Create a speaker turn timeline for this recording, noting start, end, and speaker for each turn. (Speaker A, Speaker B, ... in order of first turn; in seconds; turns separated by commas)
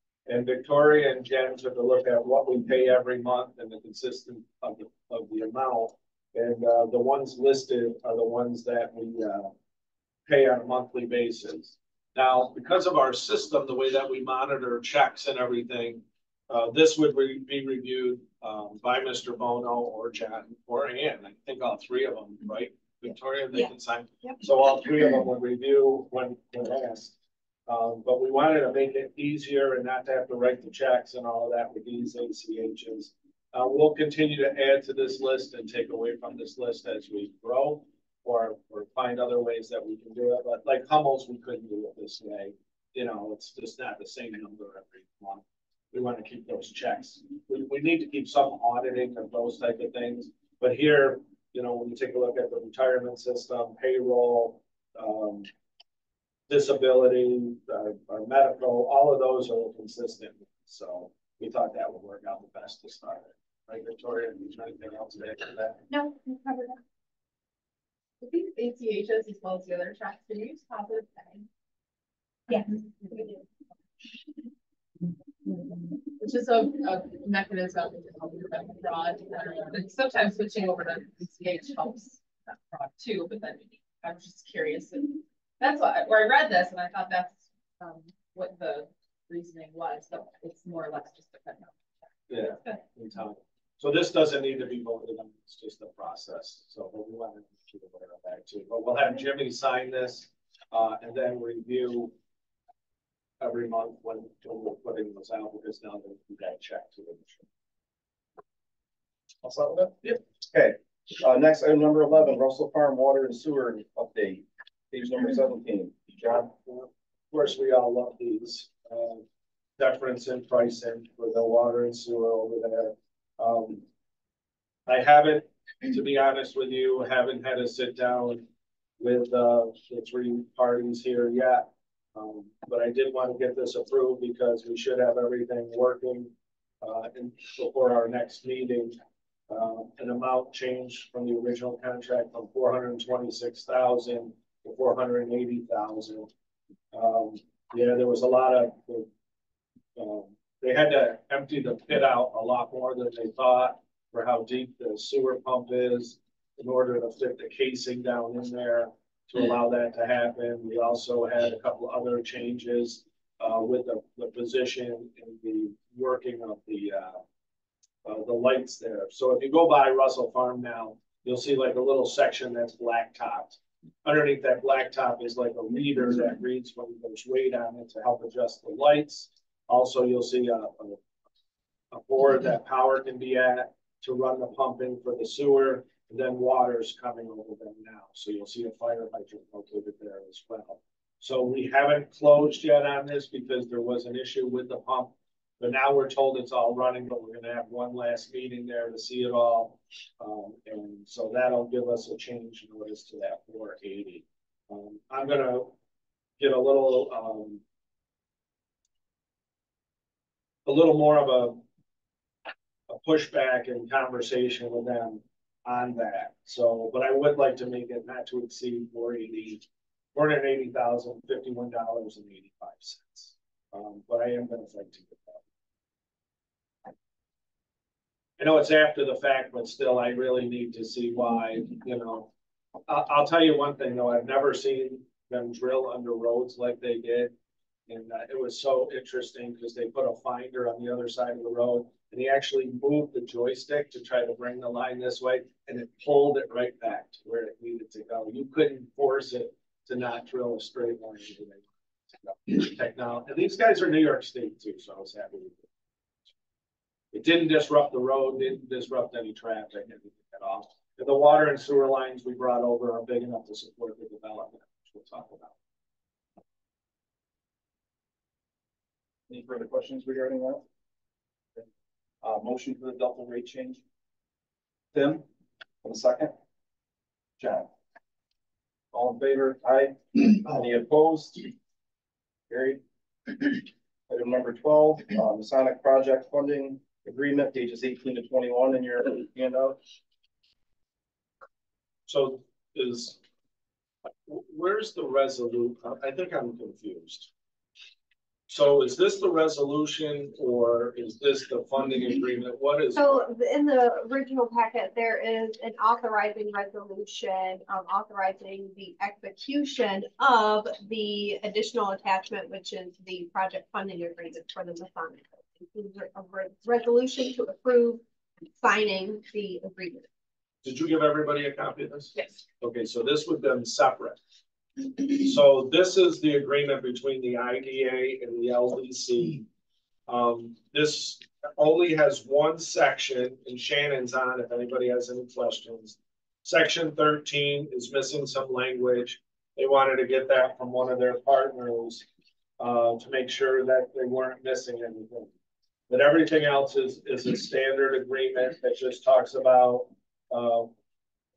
Speaker A: 0.3-9.5, Speaker A: 10.3-27.1, Speaker A: 27.7-55.5, Speaker A: 56.5-65.8, Speaker B: 65.9-66.8, Speaker C: 68.2-71.5, Speaker B: 72.5-72.7, Speaker C: 73.1-73.4, Speaker C: 76.1-91.8, Speaker A: 92.3-102.1, Speaker C: 92.3-92.8, Speaker A: 103.4-107.4, Speaker D: 109.4-116.5, Speaker A: 116.7-119.2, Speaker A: 119.8-123.8, Speaker A: 124.9-128.4, Speaker A: 129.0-139.0, Speaker A: 139.5-146.3, Speaker A: 146.9-149.1, Speaker A: 149.9-167.2, Speaker A: 168.0-181.0, Speaker A: 181.9-205.7, Speaker A: 206.4-207.6, Speaker A: 210.7-211.6, Speaker A: 212.9-225.4, Speaker A: 228.4-232.3, Speaker A: 232.9-237.3, Speaker A: 237.9-255.7, Speaker A: 257.1-265.5, Speaker D: 269.3-270.6, Speaker D: 272.2-273.8, Speaker D: 274.9-275.2, Speaker D: 275.8-276.3, Speaker D: 277.4-277.7, Speaker D: 278.9-281.5, Speaker D: 282.5-282.8, Speaker D: 284.1-289.8, Speaker A: 292.1-293.2, Speaker A: 294.2-297.3, Speaker A: 298.5-303.3, Speaker B: 302.9-318.0, Speaker B: 318.6-320.1, Speaker A: 320.6-324.2, Speaker A: 325.0-329.4, Speaker A: 330.1-342.0, Speaker A: 342.6-345.3, Speaker A: 345.9-350.7